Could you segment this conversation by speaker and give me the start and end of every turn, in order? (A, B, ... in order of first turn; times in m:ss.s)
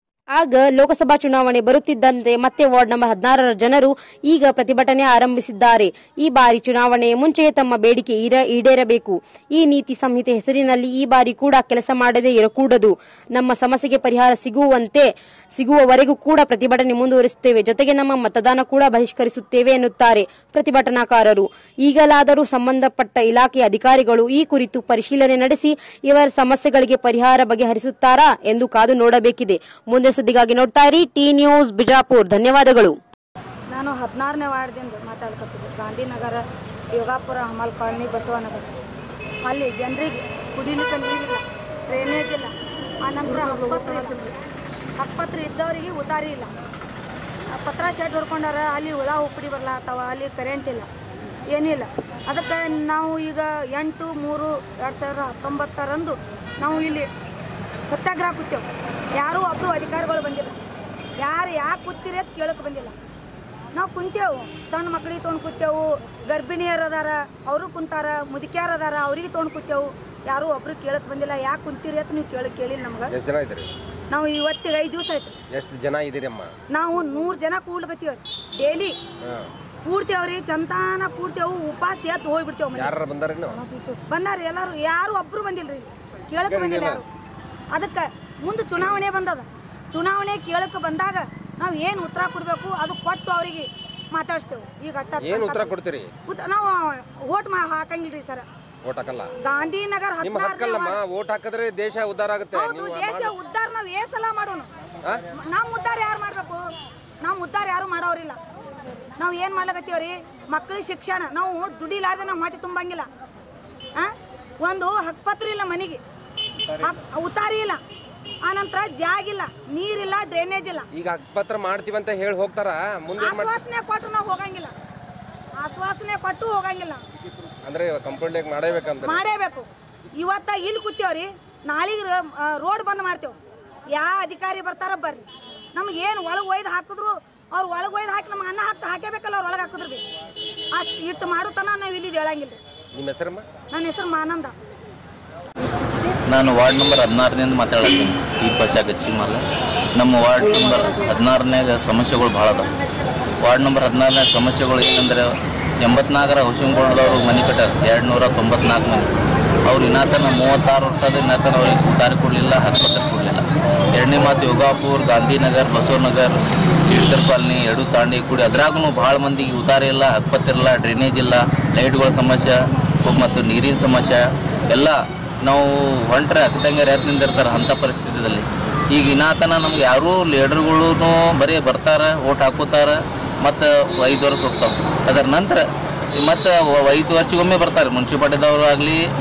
0:00.3-0:33.0 A
0:33.7-0:36.4 B
0:36.9-0:38.7 B
0:39.4-0:42.5 B
0:43.0-0:44.3 B
0:45.0-0:46.5 B
0:47.5-0:50.9 B
0:51.5-0:57.1 B
0:57.9-1:00.6 B
1:01.2-1:02.9 B
1:03.7-1:13.1 B
1:13.1-1:13.7 C
1:14.1-1:15.3 B
1:15.5-1:16.5 C
1:16.7-1:19.0 B
1:19.8-1:22.9 B
1:22.7-1:23.6 C
1:24.1-1:27.0 B
1:26.6-1:27.0 C
1:27.7-1:35.7 B
1:35.2-1:36.1 C
1:36.3-1:38.4 B
1:38.8-1:39.3 C
1:39.4-1:41.0 B
1:40.2-1:43.3 C
1:42.5-1:44.7 B
1:45.3-1:46.6 B
1:47.2-1:48.4 B
1:49.2-1:53.0 B
1:54.0-1:56.0 B
1:56.8-1:57.8 B
1:58.4-2:00.9 B
2:00.9-2:03.5 C
2:03.2-2:04.7 B
2:05.6-2:07.0 B
2:07.6-2:09.2 C
2:09.0-2:09.6 B
2:10.2-2:13.4 B
2:13.9-2:20.0 B
2:20.7-2:22.6 B
2:23.0-2:23.4 C
2:23.7-2:24.5 B
2:26.3-2:29.4 D
2:30.0-2:32.7 D
2:33.4-2:35.3 D
2:35.8-2:39.1 D
2:39.7-3:05.6 D
3:06.2-3:09.0 D